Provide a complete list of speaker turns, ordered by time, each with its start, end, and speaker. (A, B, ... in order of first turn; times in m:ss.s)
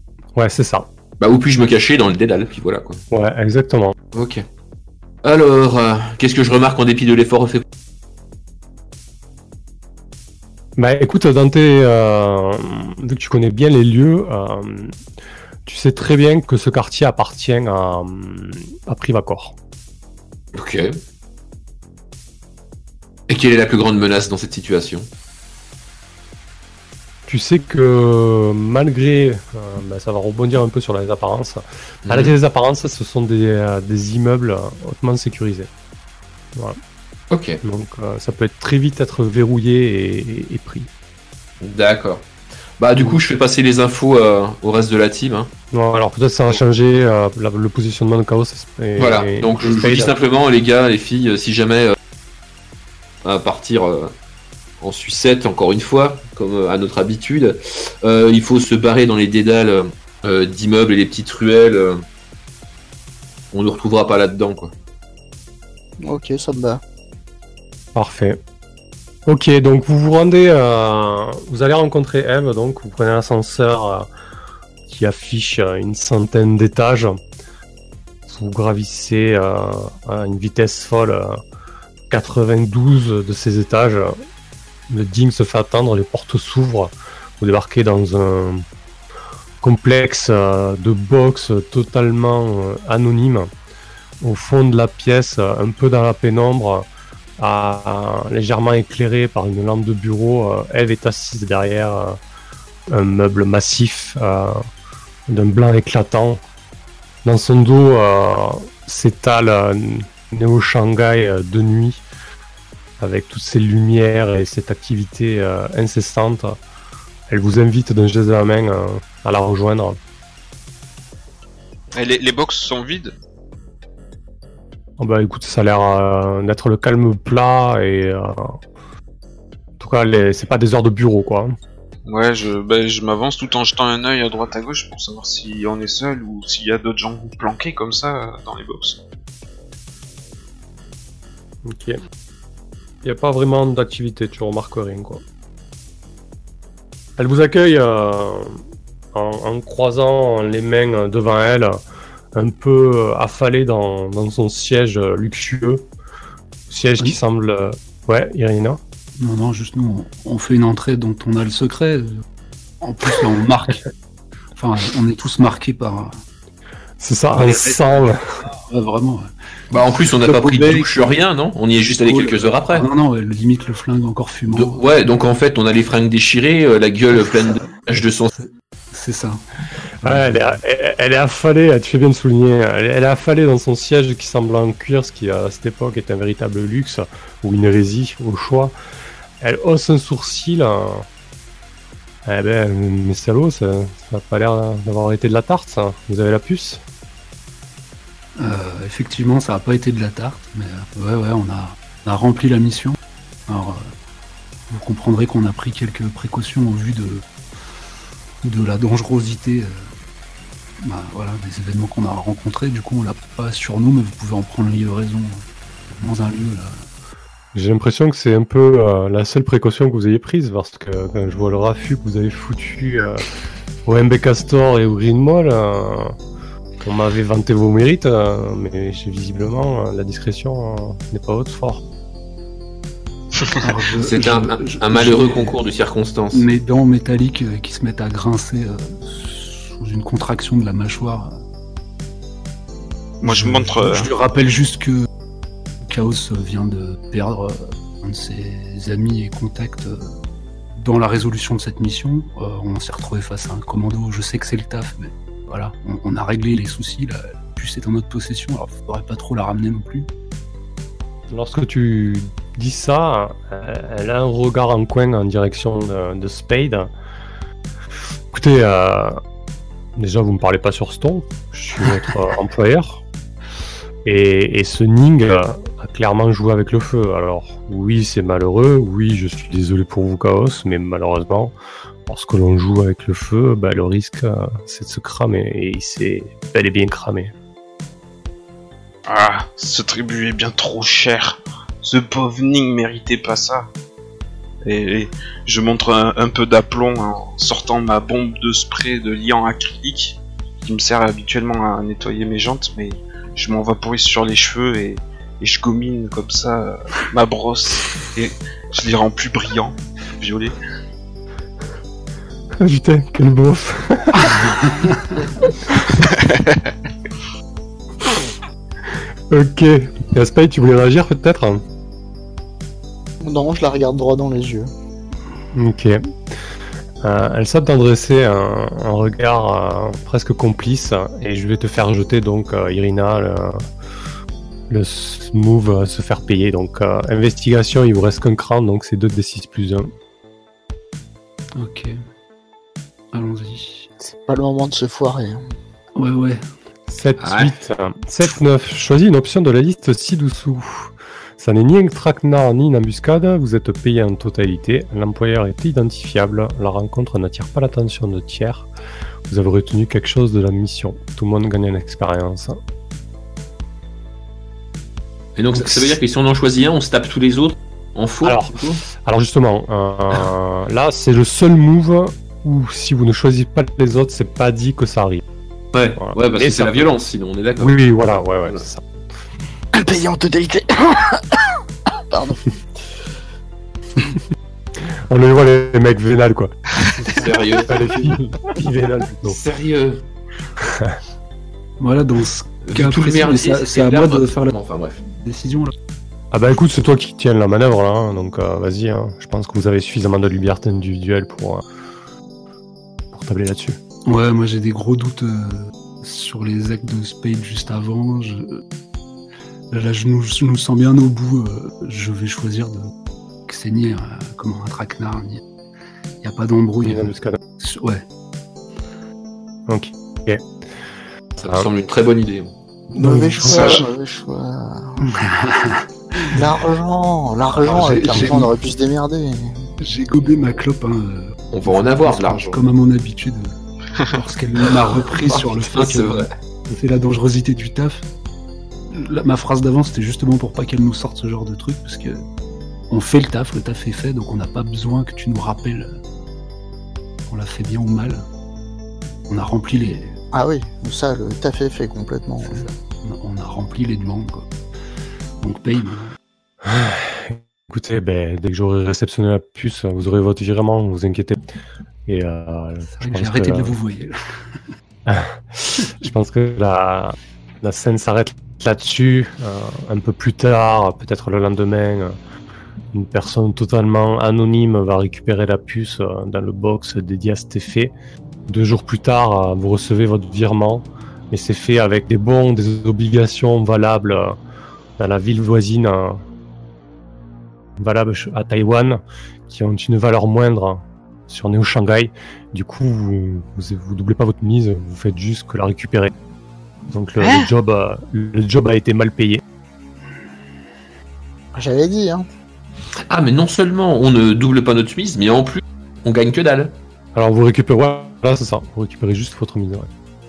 0:00.4-0:00.9 A
0:01.2-0:03.0 B
0:03.1-0:03.9 A
0:04.1-0:04.4 B
0:05.2-0:07.6 B
0:10.8-0:15.0 A
0:15.6-0:19.5 A
0:20.5-0:21.0 B
0:23.3-0:25.1 B
0:27.3-0:35.7 A
0:32.0-0:32.3 B
0:37.3-0:37.6 B
0:37.6-0:40.9 A
0:41.6-0:42.2 B
0:42.8-0:45.5 B
0:45.7-0:50.1 A
0:49.0-0:52.0 B
0:53.2-0:54.1 B
0:54.8-1:02.0 B
1:03.5-1:04.7 B
1:06.0-1:06.8 C
1:07.9-1:08.4 A
1:09.2-1:14.1 A
1:14.9-1:17.2 A
1:18.3-1:21.4 A
1:22.1-1:24.2 A
1:24.9-1:28.6 A
1:29.6-1:33.5 A
1:34.2-1:36.9 A
1:37.4-1:42.2 A
1:42.9-1:44.6 A
1:45.3-1:46.4 A
1:47.2-1:52.0 A
1:53.0-1:56.6 A
1:57.3-2:00.0 A
2:01.9-2:03.1 D
2:05.0-2:08.6 A
2:09.8-2:11.5 A
2:12.0-2:19.0 D
2:21.6-2:22.0 A
2:23.0-2:25.2 A
2:27.2-2:28.6 A
2:29.1-2:31.8 A
2:32.3-2:35.8 A
2:36.7-2:38.8 A
2:39.2-2:42.2 E
2:42.8-2:43.8 E
2:44.6-2:46.2 E
2:47.0-2:48.2 A
2:47.3-2:47.9 E
2:48.7-2:49.3 E
2:49.7-2:52.9 B
2:50.2-2:50.9 E
2:51.9-2:54.8 E
2:54.5-2:58.3 B
2:57.2-2:57.7 E
2:58.3-2:59.4 E
3:00.0-3:00.6 E
3:00.0-3:08.7 A
3:09.4-3:11.0 A
3:12.2-3:16.8 A
3:18.4-3:23.9 E
3:24.7-3:27.2 E
3:28.4-3:29.9 E
3:30.8-3:35.4 E
3:36.0-3:36.8 E
3:37.5-3:43.3 A
3:43.8-3:46.1 A
3:46.8-3:51.8 A
3:53.6-3:55.6 E
3:54.0-3:56.4 B
3:56.3-4:01.4 E
4:03.2-4:05.1 E
4:03.2-4:04.1 D
4:05.8-4:10.2 E
4:10.8-4:20.1 E
4:21.3-4:26.9 A
4:28.3-4:29.2 A
4:30.0-4:33.0 A
4:34.0-4:41.5 A
4:42.1-4:47.3 A
4:49.1-4:53.7 D
4:54.6-5:10.5 D
5:12.6-5:14.4 A
5:14.3-5:15.1 E
5:16.1-5:16.6 D
5:19.3-5:21.6 A
5:23.2-5:24.7 C
5:25.5-5:26.0 A
5:27.0-5:33.6 A
5:34.7-5:39.9 A
5:41.6-5:42.0 E
5:43.1-5:43.9 E
5:44.0-5:45.4 C
5:46.0-5:46.4 E
5:46.9-5:58.7 A
5:47.2-5:47.5 B
5:59.3-6:02.6 A
6:05.4-6:08.8 B
6:08.2-6:15.2 A
6:15.7-6:18.6 B
6:16.0-6:16.9 A
6:17.6-6:18.8 A
6:19.7-6:22.4 C
6:25.1-6:26.5 A
6:27.0-6:28.2 B
6:27.6-6:29.4 A
6:29.2-6:30.0 B
6:31.8-6:34.5 E
6:32.6-6:35.0 B
6:35.1-6:35.7 E
6:36.3-6:41.6 A
6:43.1-6:43.8 A
6:44.1-6:48.6 E
6:49.7-6:52.9 E
6:53.5-6:55.4 E
6:56.2-6:58.0 E
6:56.8-6:57.4 A
6:59.7-7:00.4 A
7:01.4-7:02.5 B
7:02.9-7:05.0 C
7:03.0-7:03.8 E
7:03.5-7:03.8 D
7:05.0-7:06.5 E
7:06.3-7:09.6 C
7:07.6-7:08.5 E
7:08.1-7:08.4 B
7:09.8-7:13.5 E
7:11.5-7:12.6 B
7:14.1-7:18.0 E
7:15.3-7:16.3 B
7:18.9-7:22.2 E
7:22.9-7:26.0 E
7:27.3-7:28.2 E
7:29.3-7:30.2 E
7:30.3-7:32.6 C
7:32.4-7:34.4 E
7:35.4-7:36.1 E
7:36.6-7:41.4 A
7:42.1-7:43.8 A
7:43.0-7:44.6 E
7:45.1-7:52.2 A
7:52.9-7:57.9 A
7:58.5-8:04.4 A
8:05.0-8:06.2 A
8:07.8-8:16.1 A
8:16.9-8:19.4 A
8:17.2-8:17.5 D
8:21.5-8:22.2 C
8:23.1-8:26.7 B
8:27.1-8:29.9 A